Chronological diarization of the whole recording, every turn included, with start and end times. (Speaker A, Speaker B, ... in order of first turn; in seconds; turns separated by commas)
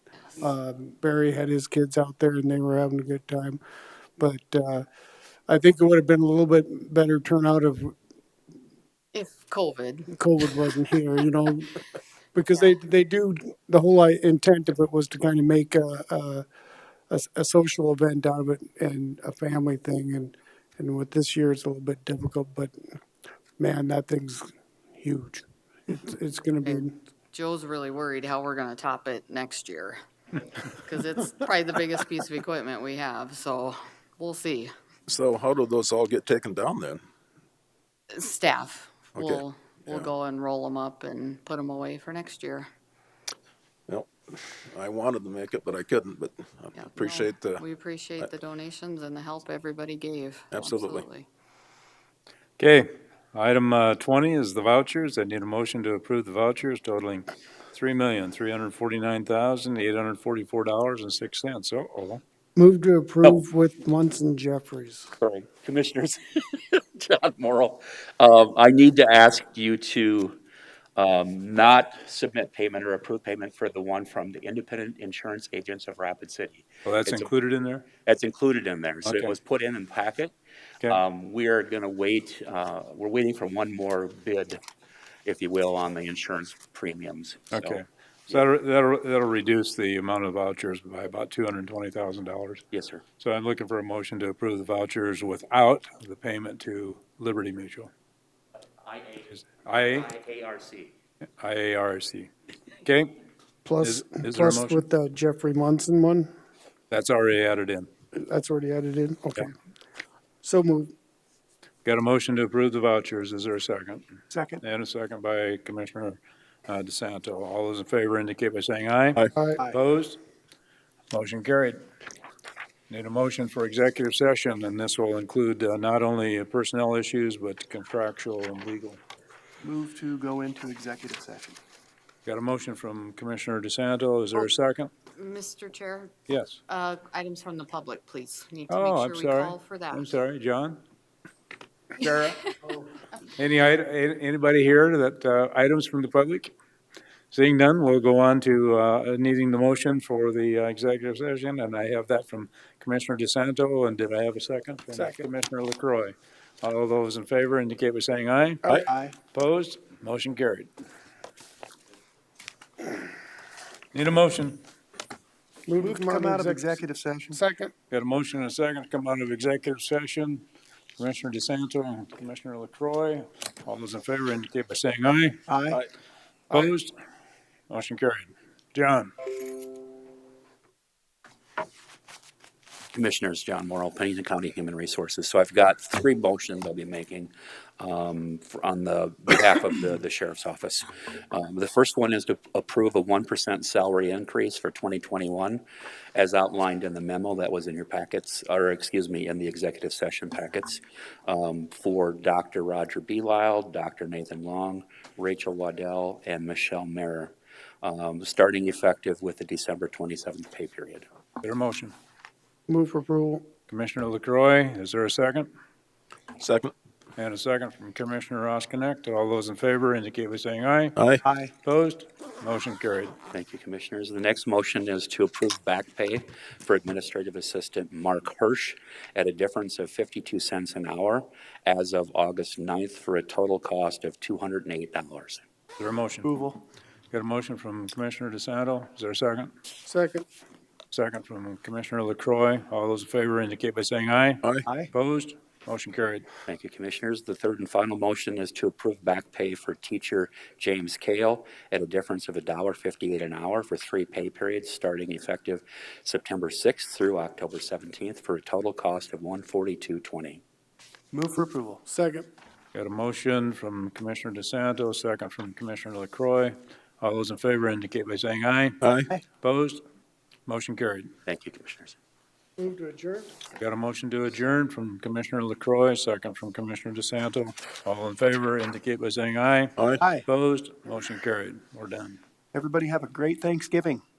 Speaker A: 0.4-3.6, Speaker A: 4.2-4.8, Speaker A: 5.5-7.9, Speaker B: 9.1-10.1, Speaker A: 10.1-11.8, Speaker A: 12.3-16.4, Speaker B: 12.5-12.8, Speaker A: 17.1-23.0, Speaker A: 23.6-27.0, Speaker B: 26.6-30.0, Speaker B: 30.7-34.7, Speaker C: 35.1-37.0, Speaker B: 38.1-42.7, Speaker C: 39.1-40.1, Speaker C: 43.9-47.6, Speaker B: 46.8-51.3, Speaker C: 50.5-51.1, Speaker D: 52.6-62.2, Speaker A: 62.5-65.1, Speaker E: 65.2-70.4, Speaker E: 71.0-77.3, Speaker D: 76.8-77.9, Speaker E: 78.0-84.6, Speaker E: 85.2-88.4, Speaker D: 87.5-92.6, Speaker E: 92.7-93.0, Speaker D: 93.2-97.9, Speaker E: 98.8-99.2, Speaker D: 99.3-100.1, Speaker E: 99.8-100.9, Speaker D: 101.4-102.3, Speaker D: 102.8-103.2, Speaker A: 103.6-106.3, Speaker D: 103.8-104.8, Speaker D: 106.9-107.9, Speaker A: 108.1-109.5, Speaker A: 110.4-110.9, Speaker D: 111.8-120.2, Speaker F: 114.3-114.6, Speaker D: 121.1-121.8, Speaker D: 122.9-129.0, Speaker F: 129.6-131.6, Speaker D: 132.2-134.9, Speaker B: 135.1-140.2, Speaker D: 136.3-136.6, Speaker D: 138.7-140.8, Speaker D: 142.0-142.5, Speaker D: 143.3-146.5, Speaker D: 147.3-158.6, Speaker A: 154.9-155.2, Speaker F: 158.8-159.2, Speaker D: 159.3-160.7, Speaker D: 163.9-164.6, Speaker A: 165.7-166.7, Speaker F: 165.8-167.4, Speaker A: 167.3-167.7, Speaker D: 167.9-170.4, Speaker D: 171.0-175.4, Speaker F: 175.5-175.8, Speaker D: 176.5-176.9, Speaker D: 177.7-179.2, Speaker E: 182.9-195.6, Speaker E: 196.1-211.1, Speaker D: 211.4-211.9, Speaker A: 212.7-213.4, Speaker D: 213.7-215.5, Speaker C: 216.4-216.7, Speaker D: 217.2-221.0, Speaker C: 220.9-221.2, Speaker F: 221.2-221.5, Speaker D: 221.6-223.2, Speaker E: 223.3-235.4, Speaker D: 235.8-236.3, Speaker F: 236.2-236.6, Speaker D: 237.1-239.5, Speaker A: 239.8-240.2, Speaker D: 240.9-246.3, Speaker F: 244.6-244.9, Speaker E: 246.4-260.4, Speaker F: 261.1-261.8, Speaker A: 261.9-262.3, Speaker D: 262.7-268.8, Speaker C: 268.8-269.1, Speaker D: 269.4-269.8, Speaker D: 270.5-271.1, Speaker E: 271.2-271.9, Speaker A: 272.6-273.3, Speaker D: 273.6-282.2, Speaker C: 279.8-280.0, Speaker F: 280.0-280.2, Speaker F: 282.5-284.0